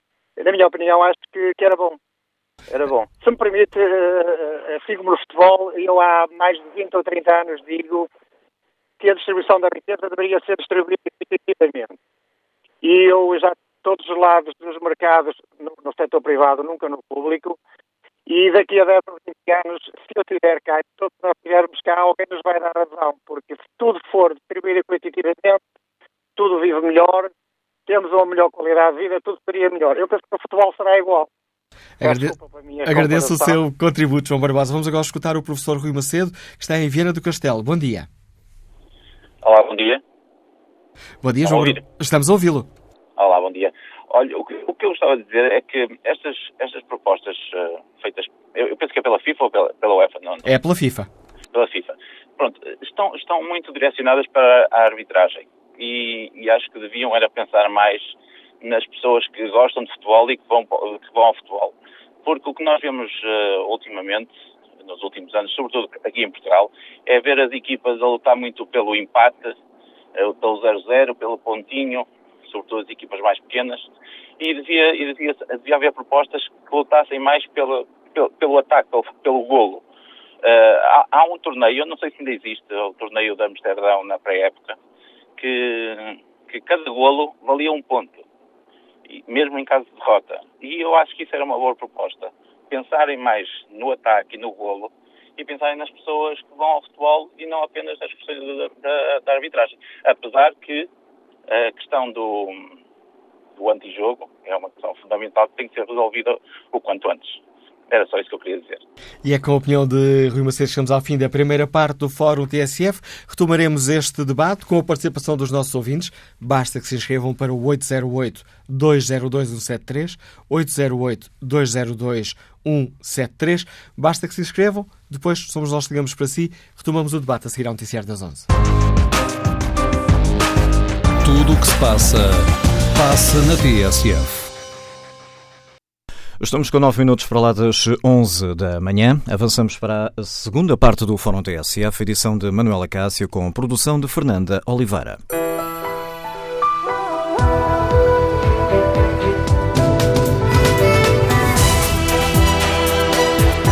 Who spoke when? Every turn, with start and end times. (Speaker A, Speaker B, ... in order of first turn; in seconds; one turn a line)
Speaker A: 0.4-2.0
Speaker A: 2.7-8.1
Speaker A: 9.0-11.9
Speaker A: 12.8-17.6
Speaker A: 18.2-25.6
Speaker A: 26.4-27.3
Speaker A: 27.9-31.3
Speaker B: 32.0-38.1
Speaker A: 32.0-33.6
Speaker C: 39.4-40.0
Speaker B: 41.2-42.7
Speaker C: 41.4-41.8
Speaker C: 43.2-50.5
Speaker B: 50.4-51.1
Speaker C: 51.5-69.6
Speaker C: 70.2-79.8
Speaker C: 80.4-84.8
Speaker C: 85.4-88.2
Speaker C: 89.1-100.9
Speaker C: 101.5-102.8
Speaker C: 103.5-108.8
Speaker B: 109.2-128.5
Speaker D: 131.2-134.5
Speaker E: 136.4-145.2